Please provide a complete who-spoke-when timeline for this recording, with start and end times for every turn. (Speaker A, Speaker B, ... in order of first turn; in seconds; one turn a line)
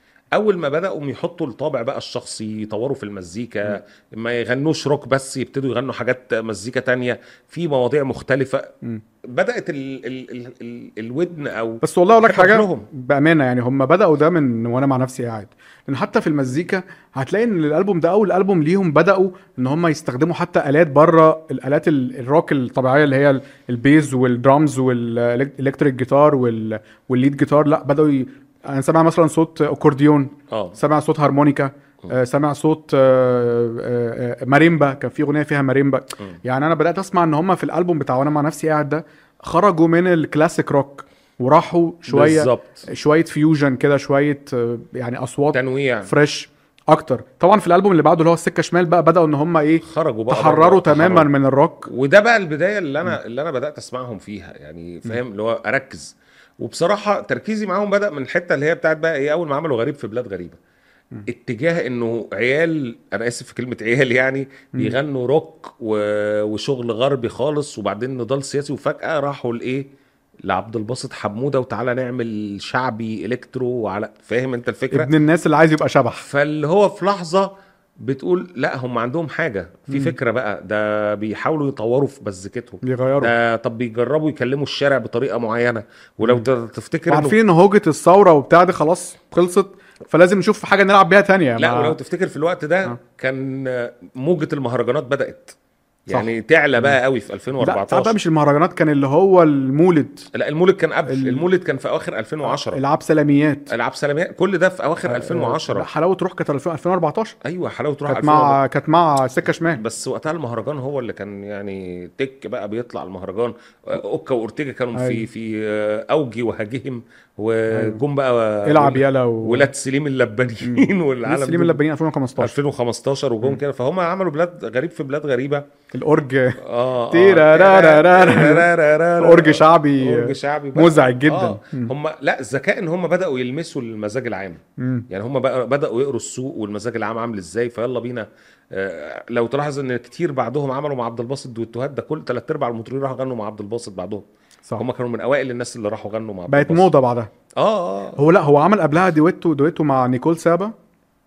Speaker A: 0.3-8.7
Speaker A: 9.3-12.9
Speaker B: 11.8-51.9
Speaker A: 30.5-30.8
Speaker A: 42.1-42.9
Speaker A: 45.5-46.1
Speaker A: 49.8-51.3
Speaker A: 51.9-60.6
Speaker A: 61.3-69.9
Speaker A: 70.5-75.1
Speaker B: 74.9-76.3
Speaker A: 76.2-77.5
Speaker A: 78.0-87.4
Speaker B: 79.9-80.2
Speaker B: 82.8-83.3
Speaker B: 87.1-92.0
Speaker A: 91.6-95.5
Speaker A: 96.1-98.2
Speaker B: 96.1-97.0
Speaker B: 97.6-100.3
Speaker A: 100.3-102.8
Speaker B: 101.1-101.5
Speaker B: 102.5-103.7
Speaker A: 103.7-105.9
Speaker B: 105.1-107.4
Speaker A: 107.4-108.6
Speaker B: 108.1-109.8
Speaker A: 109.7-121.8
Speaker B: 115.0-115.3
Speaker B: 117.7-118.0
Speaker B: 118.7-119.7
Speaker B: 120.6-122.5
Speaker A: 122.4-125.7
Speaker B: 125.9-126.6
Speaker A: 126.6-144.2
Speaker B: 127.1-128.7
Speaker B: 129.2-131.9
Speaker B: 134.8-135.1
Speaker A: 144.8-146.9
Speaker B: 146.5-147.3
Speaker A: 147.6-148.2
Speaker B: 148.2-150.7